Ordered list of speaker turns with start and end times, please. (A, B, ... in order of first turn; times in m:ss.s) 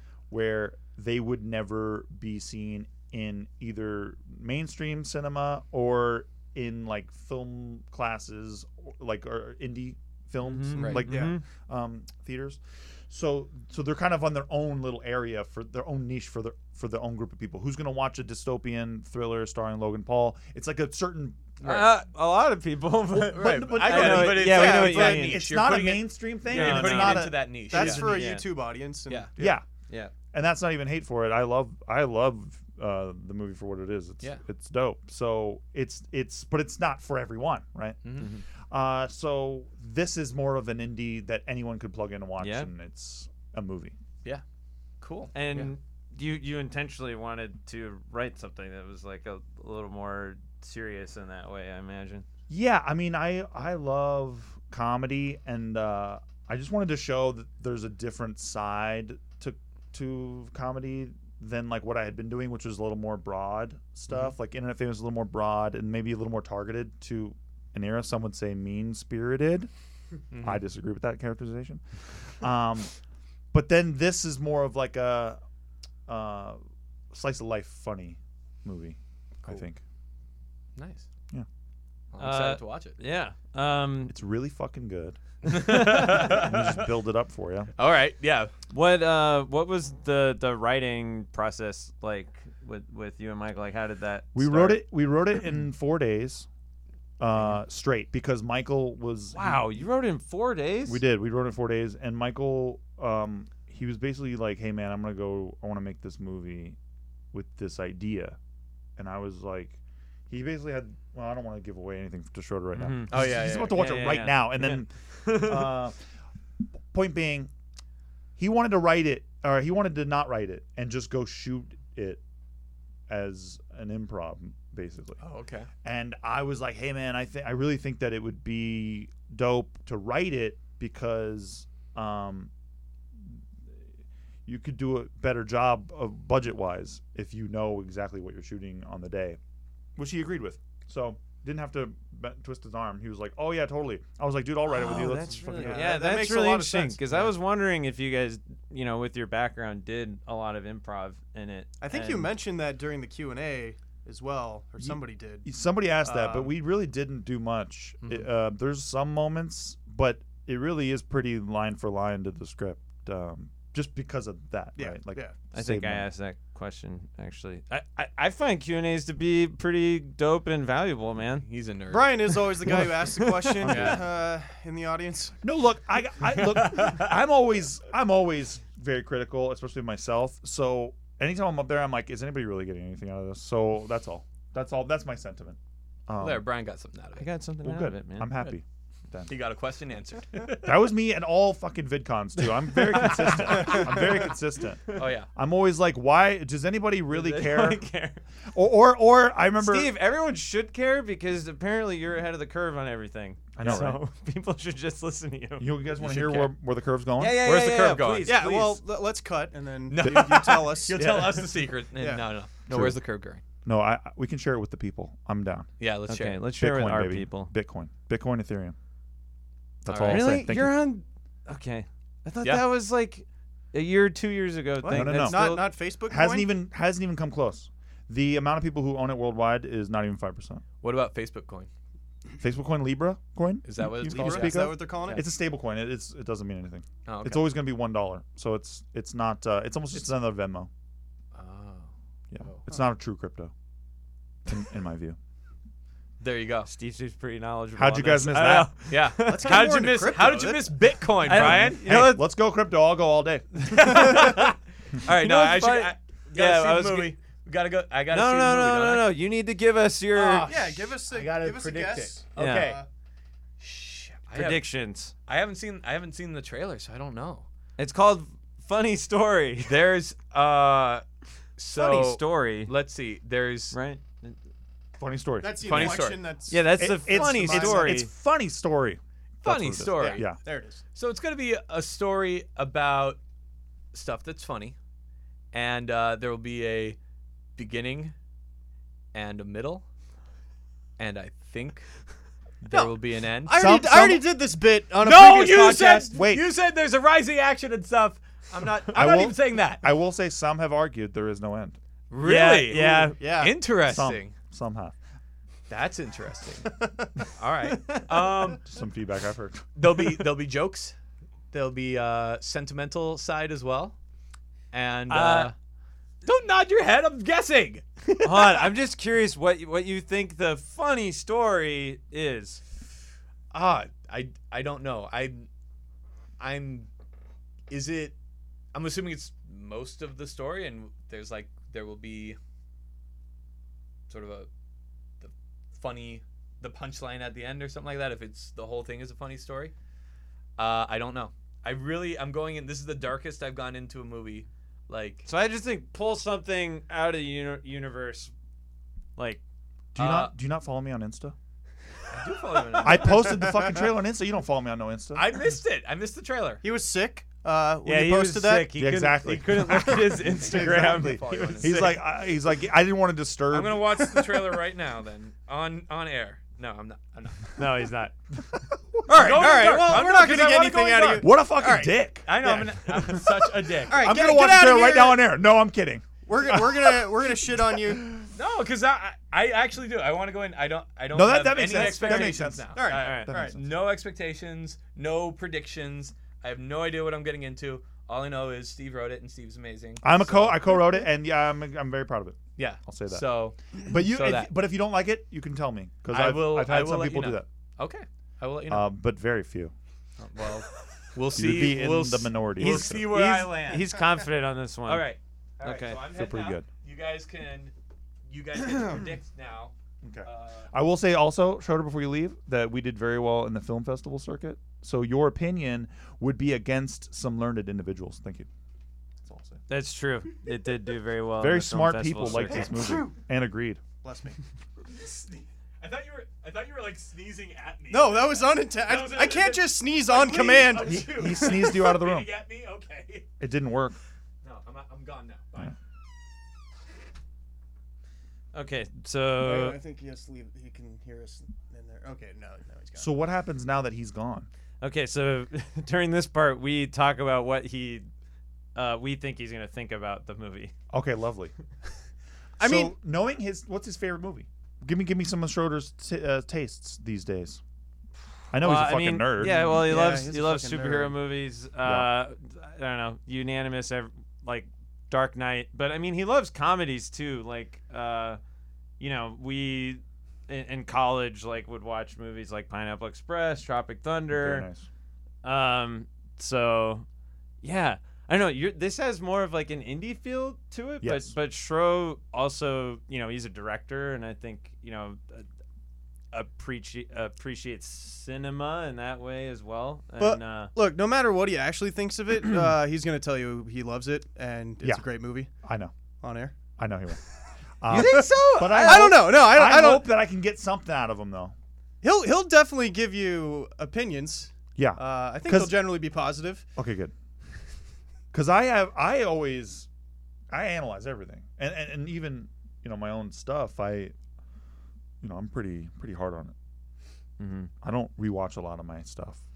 0:00.3-0:21.8 A
0:10.4-0:11.4 B
0:10.8-0:11.1 C
0:10.8-0:11.3 D
0:21.6-0:25.4 B
0:21.6-0:21.9 C
0:23.1-0:28.2 A
0:23.2-0:28.3 C
0:24.4-0:25.3 D
0:26.5-0:28.5 B
0:27.2-0:29.5 D
0:29.4-0:29.6 A
0:30.3-0:38.0 A
0:38.0-0:38.3 C
0:38.6-0:44.0 A
0:42.4-0:42.7 B
0:45.0-0:45.7 C
0:45.3-0:52.2 B
0:52.5-1:09.7 A
1:10.3-1:10.6 C
1:10.4-1:12.9 A
1:13.5-1:15.4 A
1:16.1-1:16.6 A
1:17.1-1:19.8 A
1:20.8-1:21.0 C
1:22.1-1:23.0 C
1:22.2-1:24.1 B
1:24.1-1:27.7 A
1:25.4-1:26.9 C
1:27.8-1:28.5 C
1:28.7-1:34.8 B
1:34.3-1:36.5 A
1:37.2-1:39.7 A
1:39.3-1:41.0 B
1:40.8-1:46.8 A
1:47.3-1:48.4 A
1:49.0-1:49.8 A
1:50.3-1:56.0 A
1:52.7-1:55.7 B
1:53.1-1:54.0 C
1:56.9-1:57.5 A
1:58.4-2:02.2 A
2:03.1-2:05.2 A
2:05.2-2:05.7 C
2:05.8-2:12.5 A
2:14.4-2:19.4 A
2:20.0-2:26.0 A
2:24.7-2:32.3 B
2:25.4-2:27.3 D
2:31.8-2:35.4 D
2:34.8-2:46.0 A
2:36.0-2:36.5 D
2:44.8-2:45.3 D
2:45.5-2:51.4 B
2:51.4-2:52.6 C
2:51.9-2:55.4 D
2:52.6-2:53.9 B
2:53.6-2:54.0 C
2:53.7-2:54.0 A
2:55.4-3:06.5 A
2:56.3-2:57.1 C
3:06.2-3:07.3 C
3:07.2-3:08.5 B
3:07.6-3:09.3 A
3:09.3-3:10.8 C
3:10.6-3:17.8 A
3:13.1-3:13.8 B
3:14.9-3:15.3 C
3:17.1-3:18.2 B
3:18.5-3:19.9 A
3:19.6-3:26.5 B
3:23.6-3:24.0 A
3:25.6-3:27.5 A
3:27.2-3:28.8 B
3:27.4-3:28.4 C
3:28.2-3:32.2 D
3:29.9-3:33.4 C
3:32.7-3:33.0 A
3:33.6-3:35.7 A
3:35.8-3:36.4 C
3:36.1-3:37.5 B
3:36.5-3:38.8 A
3:39.8-3:40.8 A
3:39.8-3:40.3 C
3:40.0-3:45.7 B
3:44.8-3:46.5 D
3:44.9-3:50.6 A
3:50.8-3:51.7 C
3:52.4-4:00.7 A
3:53.6-3:55.2 C
3:54.0-3:55.2 D
3:57.0-3:57.5 C
4:01.3-4:01.9 C
4:02.3-4:03.5 A
4:04.5-4:05.2 A
4:06.2-4:06.7 C
4:06.7-4:09.7 B
4:07.8-4:08.7 A
4:08.9-4:11.9 C
4:09.2-4:10.7 D
4:11.2-4:12.3 B
4:11.3-4:13.5 A
4:13.6-4:19.1 C
4:13.7-4:14.5 B
4:15.0-4:17.1 B
4:18.1-4:20.5 B
4:20.1-4:22.8 C
4:20.4-4:22.8 D
4:22.4-4:22.8 B
4:23.6-4:24.7 C
4:24.3-4:25.1 B
4:25.2-4:27.4 C
4:27.8-4:29.8 B
4:29.6-4:31.0 C
4:31.6-4:33.7 C
4:31.7-4:32.7 B
4:33.7-4:34.4 B
4:35.0-4:36.0 A
4:35.4-4:38.0 D
4:35.6-4:36.2 C
4:36.5-4:38.1 B
4:36.8-4:40.4 A
4:39.4-4:40.4 C
4:40.0-4:40.8 D
4:40.9-4:43.2 C
4:43.9-4:44.8 C
4:45.5-4:47.0 C
4:47.6-4:48.1 C
4:49.1-4:49.8 C
4:51.0-4:51.8 C
4:52.6-4:53.7 C
4:53.4-4:56.1 D
4:53.5-4:54.2 A
4:55.0-4:59.8 C
4:56.1-4:56.4 A
4:58.9-5:01.8 A
5:02.1-5:04.3 C
5:02.2-5:03.2 B
5:03.2-5:03.6 D
5:03.8-5:04.9 A
5:05.7-5:06.7 C
5:06.7-5:07.1 D
5:07.4-5:08.6 C
5:07.6-5:08.2 B
5:08.6-5:09.7 A
5:09.8-5:10.9 C
5:11.5-5:14.0 C
5:14.7-5:15.5 C
5:15.1-5:15.5 B
5:16.2-5:18.7 C
5:18.2-5:22.6 B
5:23.5-5:25.5 C
5:26.4-5:26.9 C
5:27.7-5:28.1 C
5:28.7-5:32.4 C
5:34.1-5:34.5 C
5:35.2-5:39.7 C
5:40.6-5:45.3 C
5:45.2-5:48.3 B
5:49.2-5:49.4 B
5:49.9-5:51.3 A
5:50.0-5:50.3 C
5:52.1-5:53.8 C
5:52.8-5:53.9 D
5:52.8-5:55.4 A
5:55.1-5:56.6 C
5:56.6-5:58.8 D
5:57.8-6:02.0 B
5:58.7-6:03.8 A
6:00.4-6:02.0 C
6:03.5-6:07.6 C
6:04.0-6:04.6 D
6:07.6-6:08.1 B
6:08.5-6:09.6 A
6:09.1-6:11.3 C
6:09.1-6:11.9 D
6:11.2-6:18.3 A
6:12.2-6:14.2 C
6:13.9-6:15.2 D
6:16.2-6:18.1 D
6:18.3-6:30.7 C
6:21.1-6:23.6 A
6:21.9-6:23.6 D
6:30.0-6:33.2 A
6:32.6-6:34.5 C
6:33.8-6:37.4 A
6:36.1-6:38.9 C
6:38.7-6:39.7 A
6:40.2-6:44.0 C
6:41.3-6:43.1 A
6:42.6-6:45.1 B
6:44.9-6:47.7 C
6:45.6-6:46.0 B
6:46.0-6:46.7 A
6:48.3-6:49.7 C
6:50.0-6:58.5 A
6:50.2-6:50.7 C
6:59.2-6:59.6 A
6:59.7-7:02.7 B
7:01.4-7:03.8 A
7:02.5-7:03.1 D
7:04.0-7:04.4 D
7:04.8-7:13.3 C
7:07.9-7:11.9 D
7:10.8-7:12.3 A
7:13.4-7:14.0 A
7:14.4-7:15.8 C
7:18.5-7:19.8 B
7:19.4-7:23.1 D
7:23.0-7:24.5 A
7:24.8-7:28.1 B
7:28.7-7:30.7 B
7:30.9-7:31.5 A
7:32.6-7:37.6 A
7:32.6-7:32.9 D
7:38.5-7:39.9 A
7:38.5-7:48.4 B
7:39.5-7:41.2 D
7:41.8-7:42.1 A
7:49.0-7:54.7 B
7:54.3-7:54.9 A
7:55.4-7:57.0 B
7:57.6-8:05.4 B
8:01.0-8:01.3 A
8:06.3-8:10.7 B
8:10.2-8:15.5 D
8:15.6-8:15.9 A
8:16.2-8:16.5 D
8:16.8-8:17.2 A
8:17.8-8:21.5 A
8:17.9-8:19.2 B
8:17.9-8:20.1 D
8:22.0-8:26.6 D
8:24.7-8:25.9 A
8:26.8-8:27.1 A
8:28.3-8:29.9 A
8:30.5-8:34.1 A
8:35.2-8:36.5 A
8:37.4-8:37.7 B
8:37.8-8:39.4 A